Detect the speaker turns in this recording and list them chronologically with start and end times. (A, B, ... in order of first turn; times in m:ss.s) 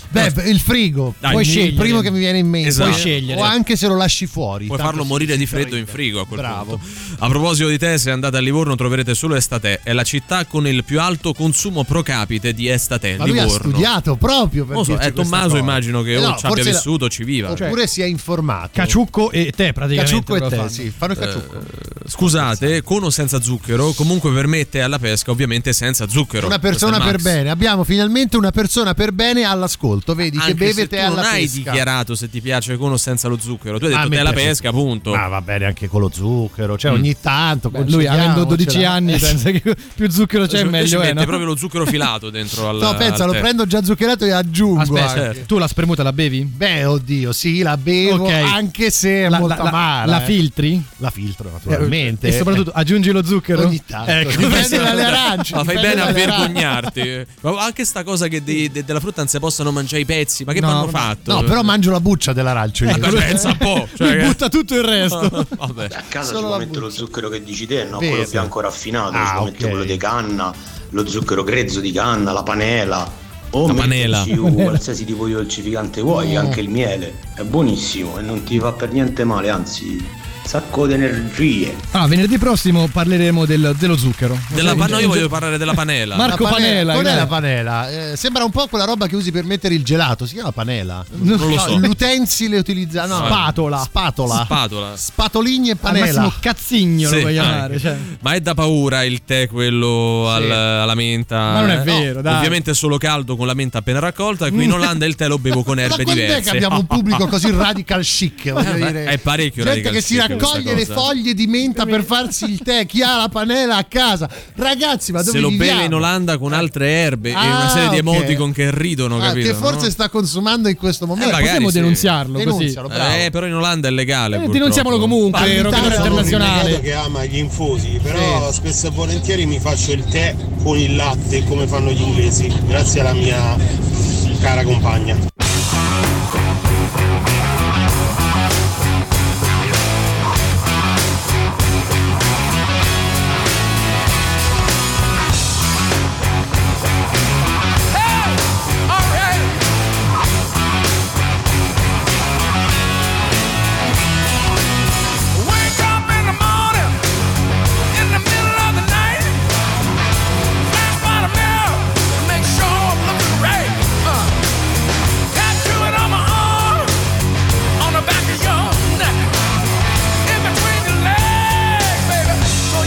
0:00.1-0:06.8 A
0:01.2-0:01.6 B
0:01.3-0:02.1 C
0:02.6-0:03.6 B
0:02.8-0:03.5 C
0:04.7-0:13.9 B
0:13.2-0:16.8 A
0:14.7-0:17.6 B
0:17.5-0:19.0 A
0:17.5-0:17.8 C
0:18.7-0:20.8 C
0:19.9-0:21.6 A
0:21.2-0:27.3 B
0:22.2-0:22.8 A
0:26.4-0:31.8 A
0:30.4-0:35.2 B
0:33.9-0:39.4 A
0:37.7-0:41.4 C
0:40.5-0:43.4 B
0:42.8-0:45.4 A
0:44.9-0:45.4 B
0:45.4-0:46.5 C
0:46.5-0:50.4 A
0:48.0-0:48.6 C
0:49.3-0:50.9 C
0:51.0-0:52.6 A
0:51.7-0:56.4 C
0:53.5-0:56.8 A
0:54.4-0:55.0 B
0:55.5-1:01.7 B
1:00.6-1:01.1 C
1:01.2-1:03.5 A
1:02.9-1:05.5 C
1:02.9-1:04.4 B
1:05.1-1:05.9 B
1:05.9-1:21.8 D
1:06.2-1:07.1 A
1:08.0-1:08.5 A
1:09.1-1:10.0 A
1:13.7-1:14.3 B
1:14.3-1:14.8 C
1:16.1-1:16.6 A
1:21.9-1:25.3 C
1:24.5-1:26.3 B
1:26.2-1:27.3 C
1:26.2-1:36.4 A
1:31.2-1:31.9 C
1:31.4-1:31.8 B
1:33.1-1:33.4 B
1:33.2-1:33.9 C
1:34.3-1:35.0 B
1:35.8-1:38.0 C
1:37.0-1:47.2 B
1:40.3-1:40.6 A
1:41.5-1:42.6 C
1:44.5-1:44.9 C
1:45.8-1:56.7 A
1:48.6-1:51.1 B
1:50.3-1:50.7 C
1:51.7-1:52.1 C
1:55.2-1:59.9 B
1:57.3-1:58.4 A
1:59.2-2:01.5 A
2:01.2-2:02.1 B
2:01.2-2:02.8 C
2:02.3-2:03.3 A
2:02.9-2:06.3 B
2:04.3-2:06.8 C
2:05.3-2:06.4 A
2:05.8-2:13.6 E
2:08.1-2:08.5 C
2:14.2-2:15.2 E